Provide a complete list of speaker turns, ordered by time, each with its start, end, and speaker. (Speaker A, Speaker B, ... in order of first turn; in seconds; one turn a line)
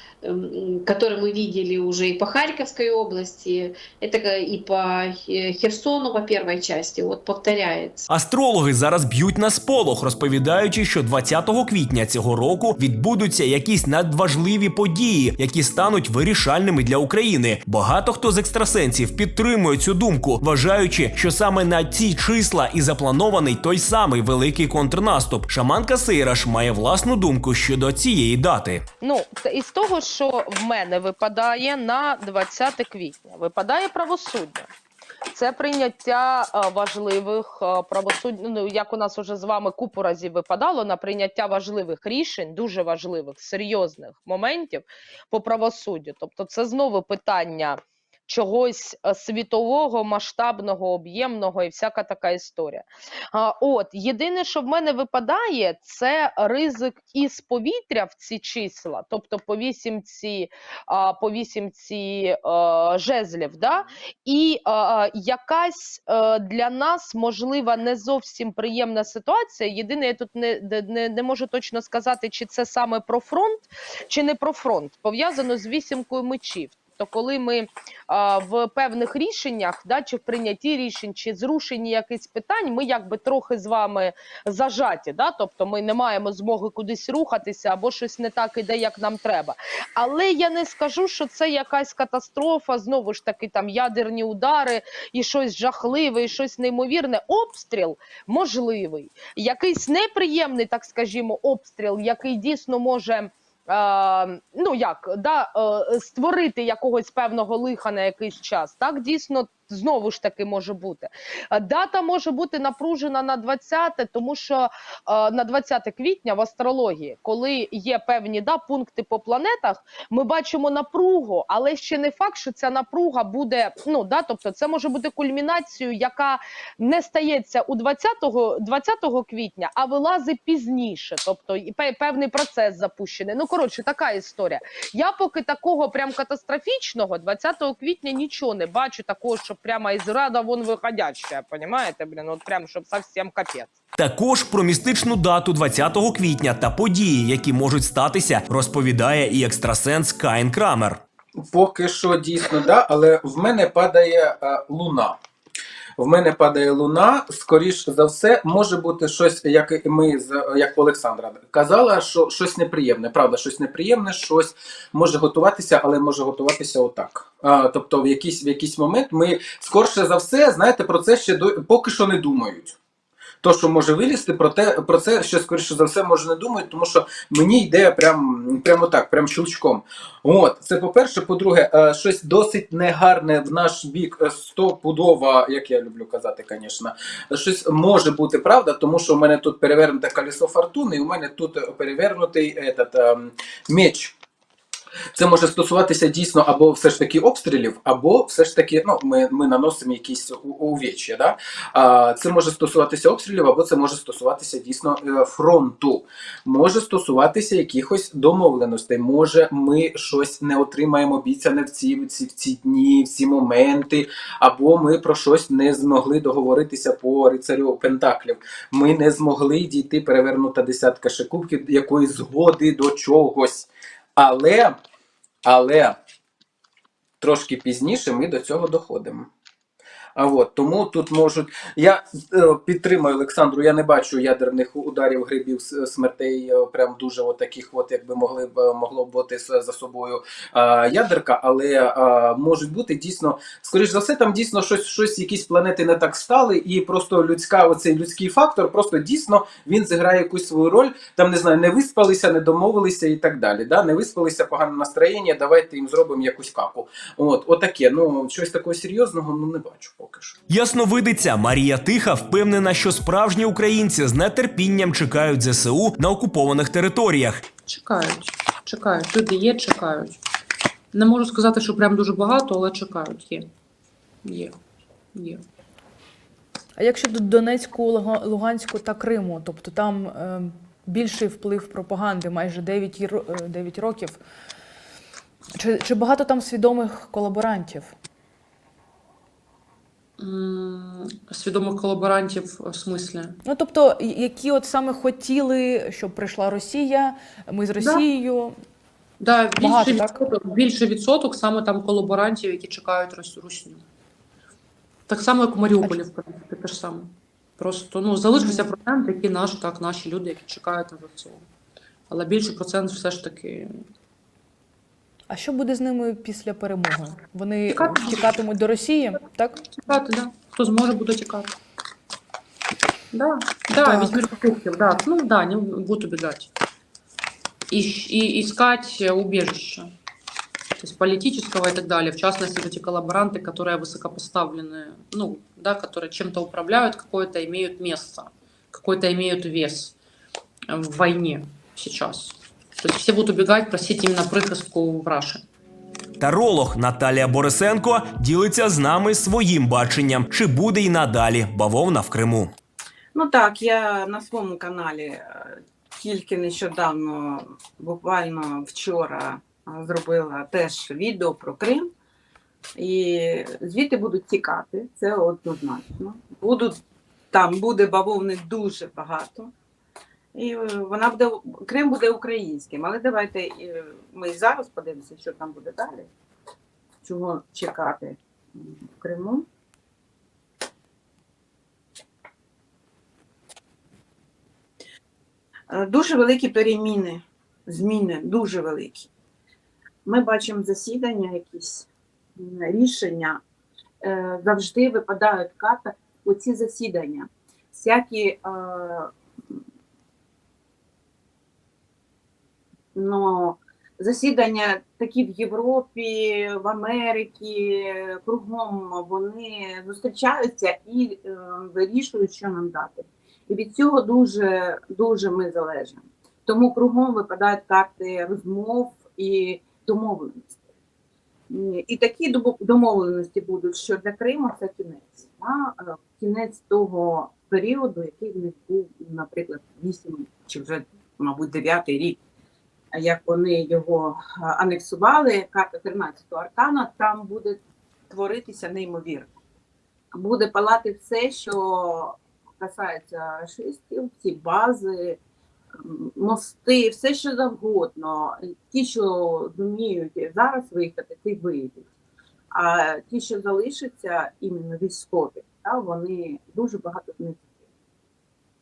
Speaker A: 0.4-8.0
Speaker B: 8.1-28.8
Speaker C: 29.0-34.7
Speaker C: 35.3-143.7
Speaker B: 143.9-151.0
Speaker D: 151.5-155.2
Speaker D: 156.0-172.8
Speaker D: 173.4-194.2
Speaker D: 195.1-224.8
Speaker D: 225.4-226.0
Speaker D: 227.2-229.3
Speaker D: 230.2-260.3
Speaker B: 260.5-267.4
Speaker E: 267.7-270.2
Speaker E: 270.9-273.5
Speaker E: 274.2-274.6
Speaker E: 275.1-275.4
Speaker F: 276.8-284.2
Speaker F: 285.5-287.9
Speaker E: 290.2-293.4
Speaker F: 293.4-298.6
Speaker E: 297.8-298.1
Speaker E: 299.2-303.8
Speaker F: 299.6-300.2
Speaker E: 305.1-311.4
Speaker E: 312.1-313.7
Speaker F: 315.3-319.6
Speaker E: 317.7-318.4
Speaker E: 319.7-321.5
Speaker E: 323.1-326.5
Speaker F: 323.8-324.2
Speaker E: 327.7-329.9
Speaker E: 330.8-339.9
Speaker E: 340.7-345.4
Speaker B: 346.2-352.5
Speaker G: 353.1-361.9
Speaker G: 362.8-366.8
Speaker G: 367.3-369.5
Speaker G: 370.3-376.1
Speaker G: 377.0-379.5
Speaker G: 385.7-389.1
Speaker G: 390.0-393.4
Speaker G: 394.0-399.1
Speaker G: 402.9-420.5
Speaker G: 421.5-432.2
Speaker G: 432.9-439.3
Speaker G: 440.1-445.2
Speaker G: 445.8-451.9
Speaker G: 452.5-457.4